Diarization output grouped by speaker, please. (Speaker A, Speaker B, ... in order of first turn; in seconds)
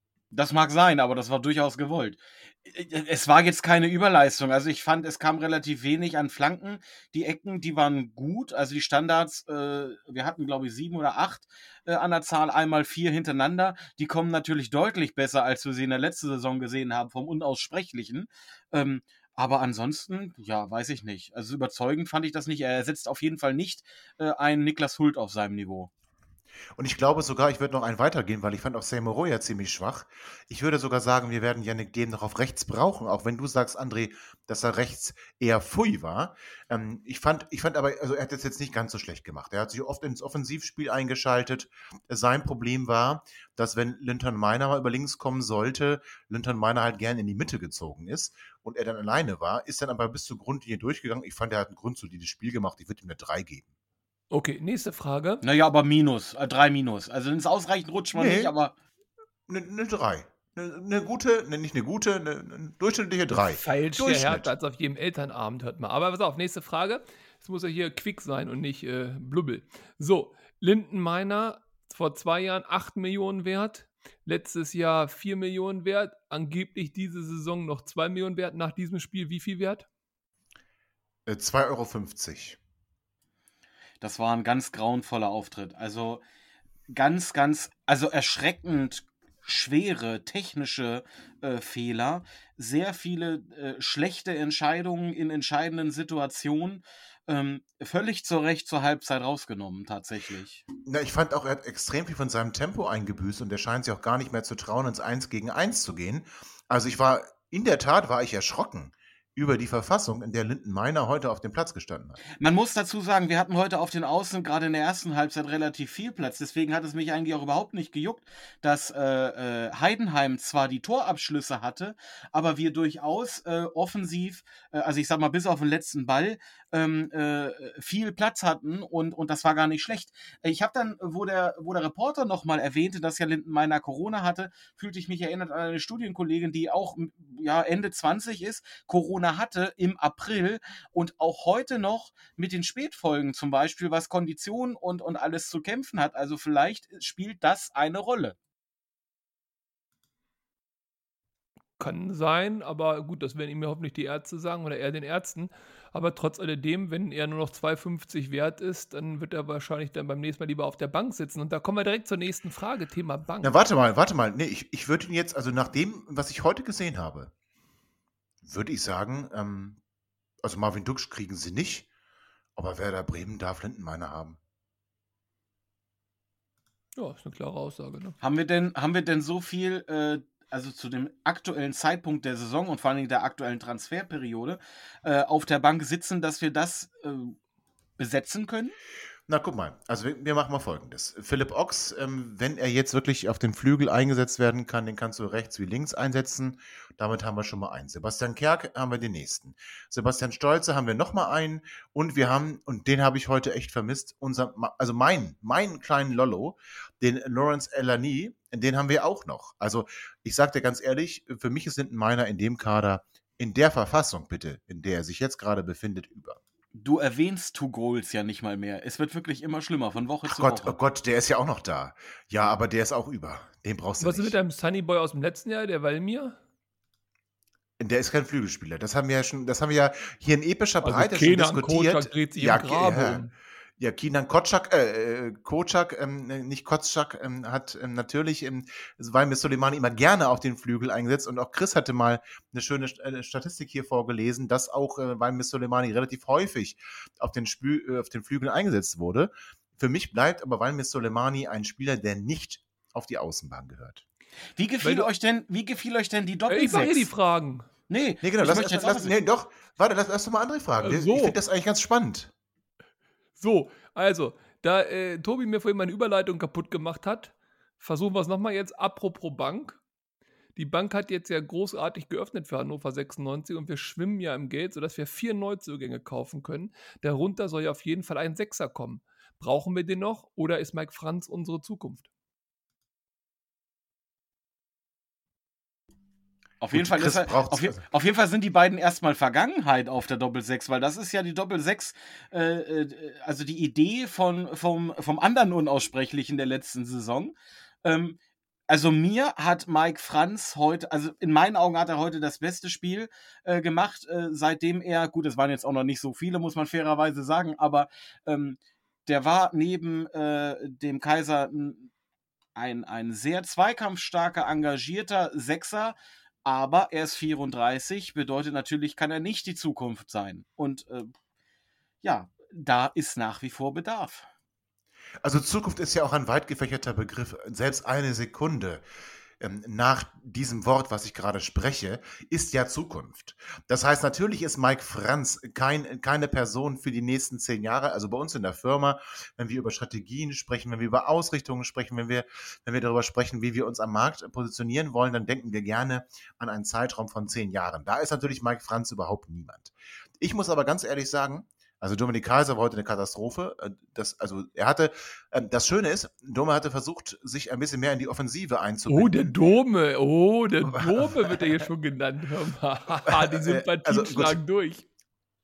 Speaker A: 0.3-25.9, 55.4-58.7, 84.0-86.2, 86.9-100.6, 112.4-148.4, 178.2-187.4, 188.0-188.8, 216.8-220.8, 254.6-257.1, 257.9-259.1, 286.6-298.2, 298.7-311.9, 312.6-321.1, 322.0-324.3
Speaker B: 26.8-53.7, 58.1-58.5, 59.5-64.5, 81.3-82.6, 100.8-112.2, 163.4-167.3, 168.4-169.8, 170.4-171.9, 172.6-174.4, 189.3-216.4, 220.2-224.3, 227.8-233.2, 233.8-254.0, 258.2-262.3, 286.7-287.8, 325.2-328.8, 329.4-359.3, 360.7-361.6, 363.1-364.4
Speaker C: 54.3-55.4, 63.3-79.9, 151.8-163.6, 177.0-178.2, 224.0-226.4, 230.8-233.3, 254.8-255.1, 256.5-257.7, 260.8-261.4, 263.4-269.8, 270.6-282.1, 358.9-364.9